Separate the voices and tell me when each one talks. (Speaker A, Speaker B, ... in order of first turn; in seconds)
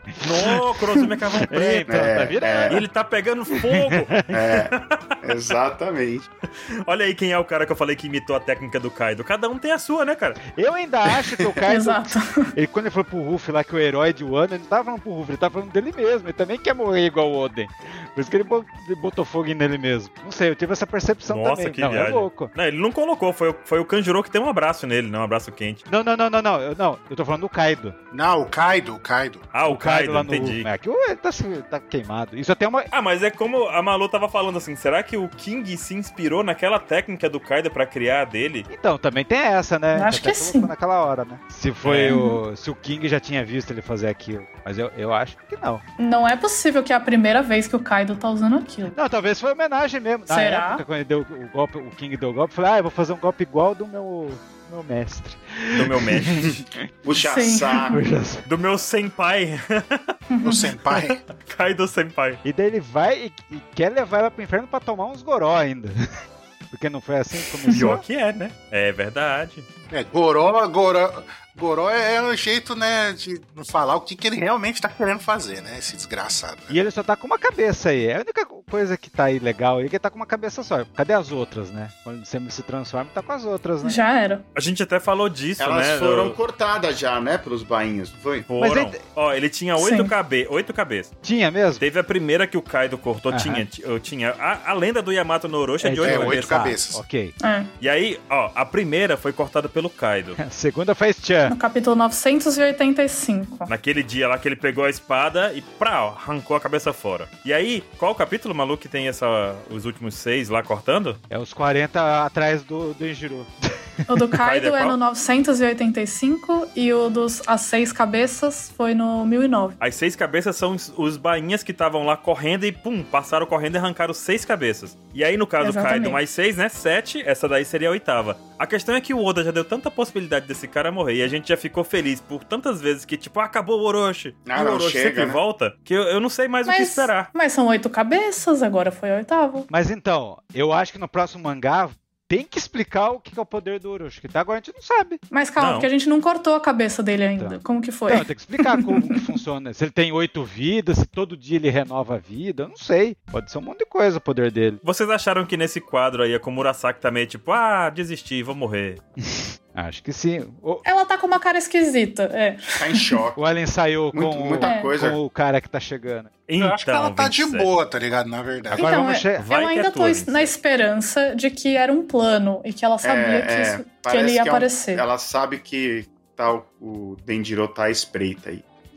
Speaker A: 0.1-0.6, 1.5-2.8, 10.5-22.5, 25.9-28.0, 29.7-32.9, 38.7-45.8, 48.9-56.5, 57.9-58.5, 62.4-65.9, 66.7-68.0, 76.7-84.0, 88.6-89.0, 91.2-91.8, 93.3-93.6, 95.8-97.3, 100.4-101.6, 111.3-113.5, 139.7-145.2, 147.4-154.8, 159.2-160.8, 163.4-166.3, 168.7-169.5
Speaker B: 0.2-2.1, 2.7-5.2, 6.8-10.4, 21.3-25.8, 29.5-30.7, 32.9-38.7, 41.8-42.2, 55.7-56.6, 58.5-60.1, 61.1-62.4, 67.7-69.7, 84.5-86.4, 88.5-91.1, 91.8-96.6, 97.8-100.4, 103.7-111.2, 114.4-115.0, 119.8-137.3, 145.6-145.9, 154.8-159.0, 166.5-167.7, 169.4-170.5
Speaker C: 1.9-2.8, 4.3-4.7, 5.2-6.3, 56.4-58.0, 85.6-88.5, 134.5-135.4, 162.8-163.4, 164.1-165.2, 173.0-178.6
Speaker D: 11.7-12.5, 39.9-40.7, 42.1-42.4, 46.0-49.0, 50.3-50.8, 57.2-57.9, 60.3-60.7, 83.8-84.5, 89.8-90.1, 97.4-97.7, 101.5-103.7, 114.1-119.8, 125.6-126.2, 136.7-139.7, 145.3-149.3, 160.8-163.2, 164.6-164.9, 168.8-175.1
Speaker E: 28.1-29.5, 60.4-61.2, 69.9-76.7, 96.0-97.0, 166.6-168.9